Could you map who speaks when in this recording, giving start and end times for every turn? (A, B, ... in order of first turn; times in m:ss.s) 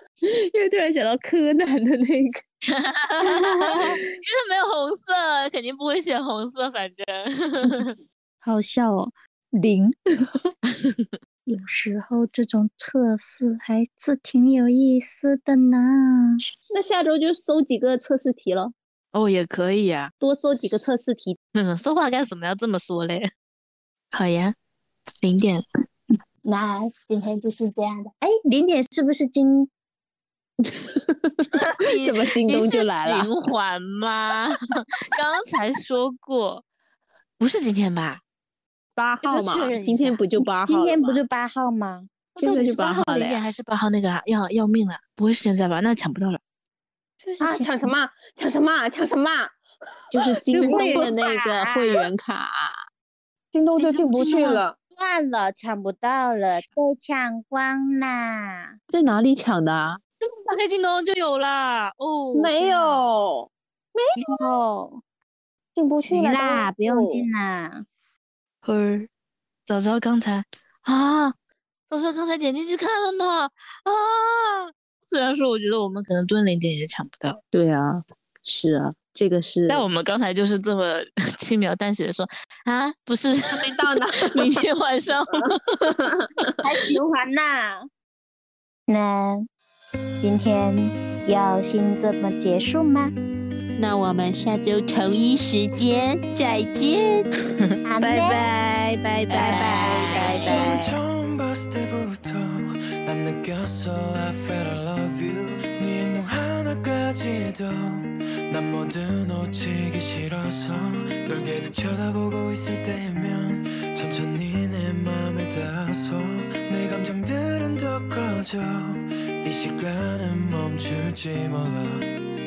0:00.3-0:02.4 A
0:02.7-0:08.0 B
0:08.4-0:10.0 C
0:11.5-0:16.4 C
0:16.7-0:18.7 A
0:19.1-0:20.1 B
0:20.2-0:21.4 A
0:21.6-0:23.3 B
0:24.1-0:24.6 B
0:25.2-0:25.6 B
0:26.4-0:29.7 C
0:30.8-0:31.5 A
0:31.6-0:36.6 B
0:32.0-0:33.5 A
0:37.4-0:38.2 B
0:39.0-0:41.2 A
0:39.2-0:40.2 B
0:40.7-0:42.3 C
0:42.4-0:43.4 A
0:42.4-0:46.4 B
0:47.2-0:47.7 C
0:47.4-0:49.6 D
0:50.1-0:52.8 A
0:50.2-0:51.0 D
0:50.5-0:51.9 C
0:53.5-0:54.8 D
0:53.8-0:54.6 B
0:55.0-0:58.8 C
0:58.9-1:00.0 A
1:00.5-1:03.1 B
1:02.3-1:04.6 D
1:04.2-1:05.0 C
1:05.8-1:07.3 D
1:06.1-1:07.9 C
1:08.6-1:09.1 B
1:09.7-1:11.4 B
1:11.9-1:17.4 B
1:17.5-1:19.9 A
1:19.7-1:25.9 B
1:23.5-1:24.6 D
1:25.3-1:26.3 D
1:26.6-1:27.9 C
1:28.9-1:29.5 C
1:30.2-1:33.1 C
1:33.8-1:37.3 A
1:37.8-1:38.5 C
1:38.0-1:41.0 A
1:39.3-1:40.7 C
1:40.5-2:02.0 E